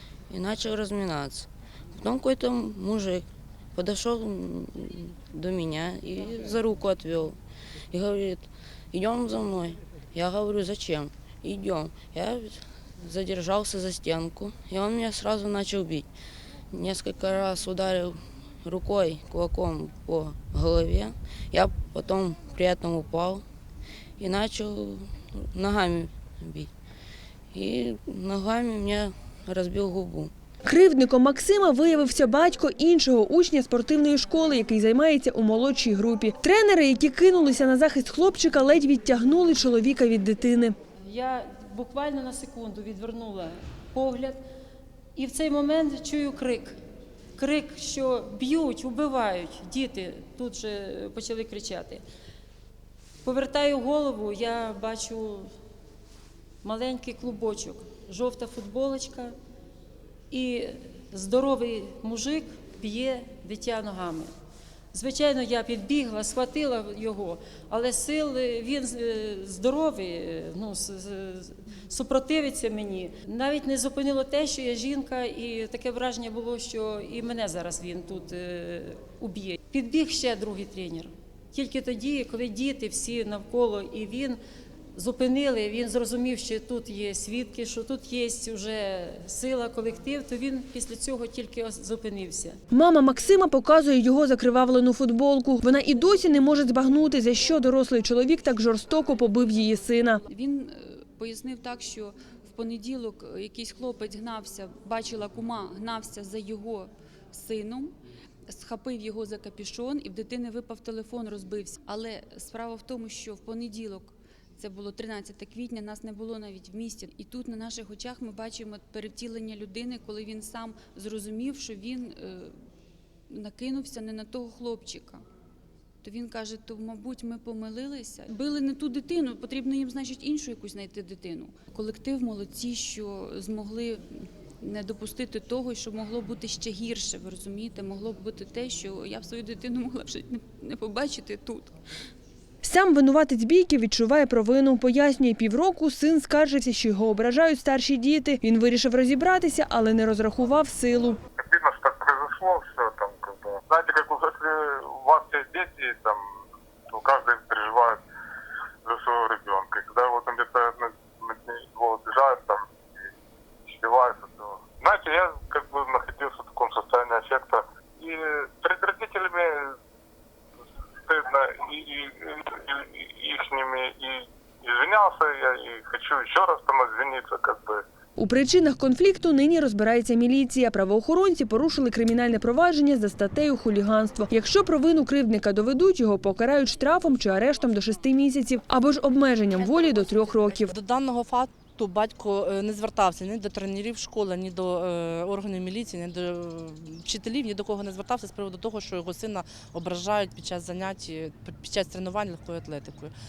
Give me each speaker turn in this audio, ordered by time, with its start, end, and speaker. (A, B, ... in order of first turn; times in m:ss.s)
0:00.3-0:07.4 A
0:07.9-0:16.1 A
0:16.7-0:23.4 A
0:24.2-0:26.7 A
0:27.5-0:30.3 A
0:30.7-0:40.8 B
0:41.1-0:44.4 C
0:45.2-0:46.8 C
0:47.4-0:52.0 C
0:53.2-0:55.5 C
0:56.6-0:59.4 C
1:00.3-1:04.3 C
1:04.9-1:24.4 C
1:25.0-1:32.6 C
1:32.7-1:40.2 B
1:40.3-1:48.0 D
1:48.5-2:02.5 D
2:03.3-2:05.2 D
2:06.0-2:21.8 D
2:22.6-2:31.2 B
2:31.4-2:36.2 E
2:36.9-2:38.0 E
2:38.9-2:43.1 E
2:43.7-2:49.7 E
2:51.1-2:57.8 E
2:58.2-3:10.8 B
3:10.6-3:23.1 F